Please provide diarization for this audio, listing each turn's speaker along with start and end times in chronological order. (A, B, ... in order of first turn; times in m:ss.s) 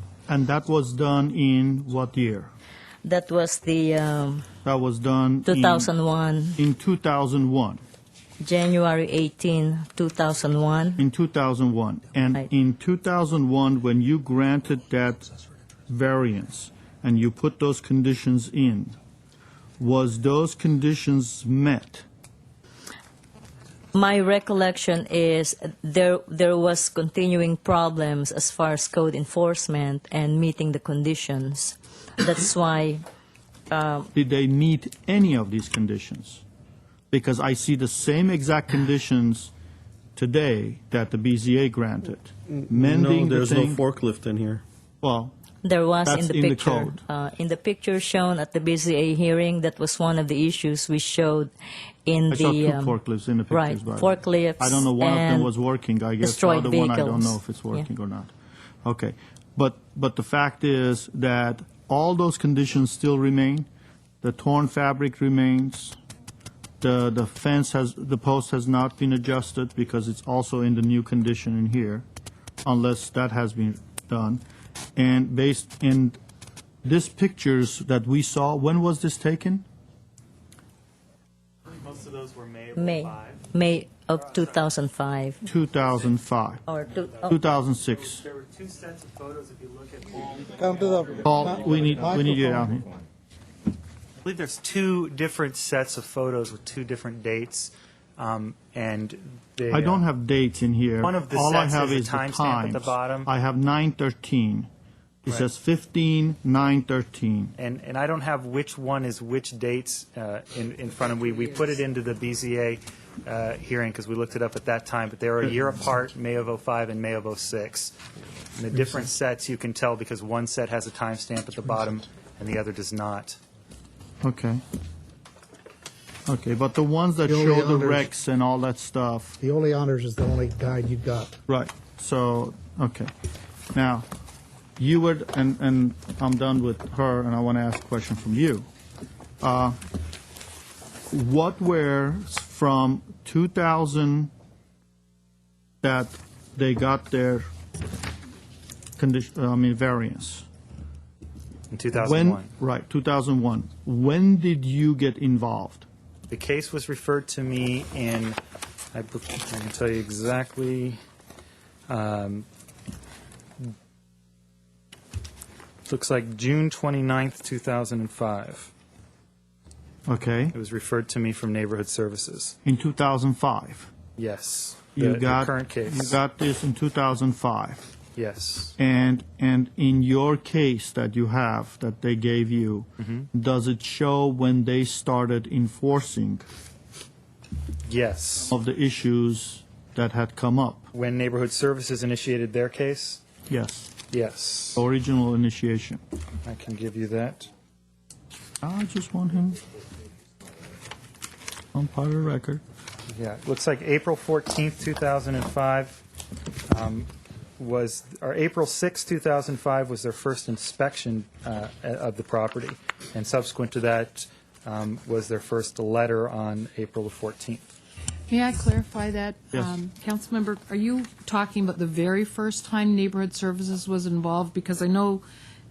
0:00.3-0:02.5 A
0:03.0-0:04.5 B
0:04.6-0:05.9 A
0:05.4-0:06.6 B
0:06.6-0:07.8 A
0:08.4-0:11.0 B
0:11.0-0:15.3 A
0:15.9-0:19.0 A
0:19.8-0:22.0 A
0:23.9-0:33.0 B
0:33.7-0:34.1 B
0:34.1-0:36.4 A
0:37.1-0:39.5 A
0:40.2-0:43.8 A
0:42.6-0:44.6 C
0:45.0-0:45.3 A
0:45.6-0:51.5 B
0:46.0-0:47.0 A
0:52.0-0:53.0 B
0:52.3-0:58.3 A
0:53.5-0:55.5 B
0:56.2-0:57.8 B
0:58.8-1:03.7 A
1:04.2-1:06.0 A
1:06.8-1:12.0 A
1:12.6-1:14.4 A
1:15.0-1:16.2 A
1:16.8-1:19.6 A
1:21.7-1:23.5 D
1:22.8-1:25.4 B
1:24.1-1:24.6 D
1:25.4-1:26.6 A
1:26.7-1:27.2 B
1:27.0-1:30.9 D
1:27.3-1:28.2 A
1:30.6-1:32.5 E
1:31.2-1:32.9 A
1:34.2-1:40.0 D
1:39.7-1:44.7 A
1:41.0-1:43.3 D
1:45.2-1:47.5 A
1:47.6-1:57.9 D
1:58.5-2:03.4 D
2:04.2-2:04.6 A
2:06.3-2:09.4 A
2:07.3-2:08.0 E
2:09.4-2:11.3 E
2:11.5-2:13.1 A
2:13.7-2:14.0 A
2:14.8-2:18.7 A
2:19.4-2:19.8 A
2:21.1-2:24.3 A
2:25.8-2:27.4 A
2:29.0-2:30.4 A
2:31.7-2:32.5 D
2:32.0-2:35.8 A
2:36.3-2:38.4 D
2:38.9-2:41.0 D
2:41.9-2:42.4 D
2:45.8-2:48.7 D
2:50.1-2:50.5 A
2:50.5-2:52.5 D
2:52.6-2:53.9 A
2:54.2-2:56.2 D
2:55.0-2:57.9 A
2:58.2-2:58.8 D
2:58.8-3:06.4 A
3:03.0-3:03.2 D
3:07.8-3:08.5 D
3:08.5-3:10.9 A
3:10.9-3:13.2 D
3:13.5-3:13.9 A
3:14.1-3:14.8 D
3:14.8-3:16.0 A
3:16.4-3:17.5 D
3:18.6-3:19.6 A
3:21.7-3:22.6 A
3:23.1-3:26.0 D
3:26.7-3:37.7 D
3:38.3-3:45.2 F